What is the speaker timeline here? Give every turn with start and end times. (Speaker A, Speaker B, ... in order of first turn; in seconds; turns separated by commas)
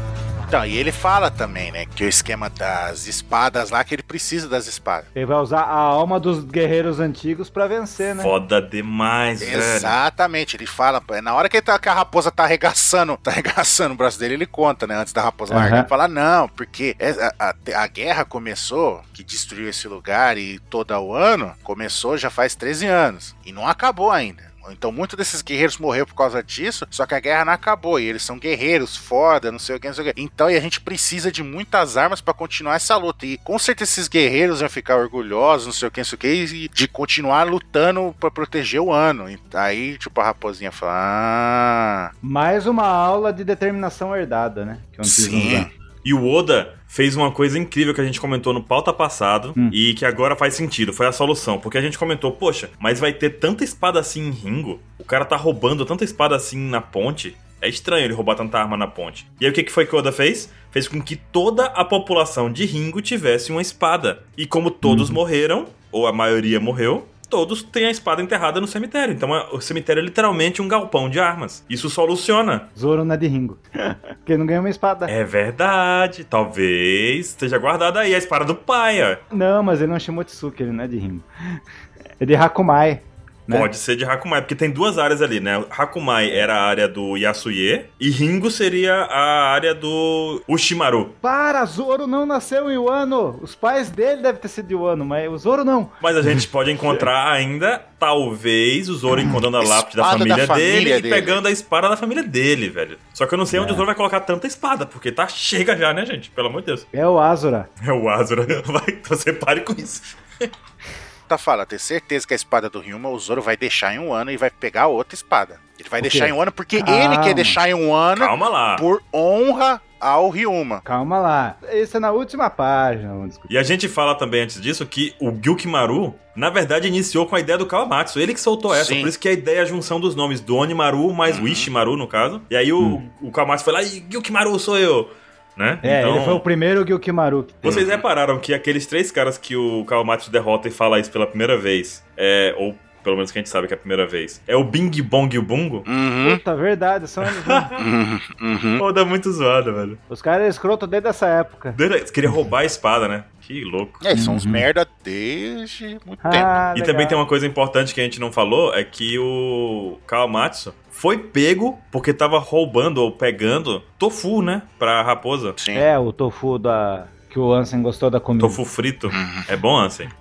Speaker A: 0.5-5.1, Speaker B: 5.2-8.3, Speaker C: 8.2-10.0, Speaker A: 9.4-42.1, Speaker B: 15.5-15.9, Speaker B: 42.2-45.7, Speaker A: 45.0-45.7, Speaker C: 46.0-72.7, Speaker B: 64.8-65.2, Speaker B: 72.8-75.1, Speaker C: 75.1-79.2, Speaker B: 79.3-81.6, Speaker B: 82.2-83.7, Speaker C: 83.5-91.2, Speaker B: 91.2-96.5, Speaker C: 96.0-106.9, Speaker A: 99.6-101.4, Speaker B: 103.5-103.8, Speaker B: 106.9-107.7, Speaker C: 107.8-110.5, Speaker A: 111.3-120.8, Speaker B: 116.0-117.6, Speaker C: 118.2-118.8, Speaker B: 120.8-123.5, Speaker C: 123.5-136.4, Speaker A: 128.7-129.1, Speaker A: 131.3-131.7, Speaker B: 132.8-133.1, Speaker B: 135.8-137.8, Speaker C: 137.6-145.9, Speaker A: 137.7-138.0, Speaker A: 145.9-146.4, Speaker B: 146.2-147.7, Speaker C: 147.2-147.8, Speaker A: 147.8-148.8, Speaker C: 148.8-150.0, Speaker B: 150.1-151.8, Speaker C: 151.8-154.0, Speaker A: 154.0-156.5, Speaker B: 154.1-154.7, Speaker B: 156.2-157.2, Speaker C: 156.8-165.6, Speaker A: 165.6-165.8, Speaker B: 165.7-168.6, Speaker C: 168.4-170.1, Speaker A: 169.1-169.5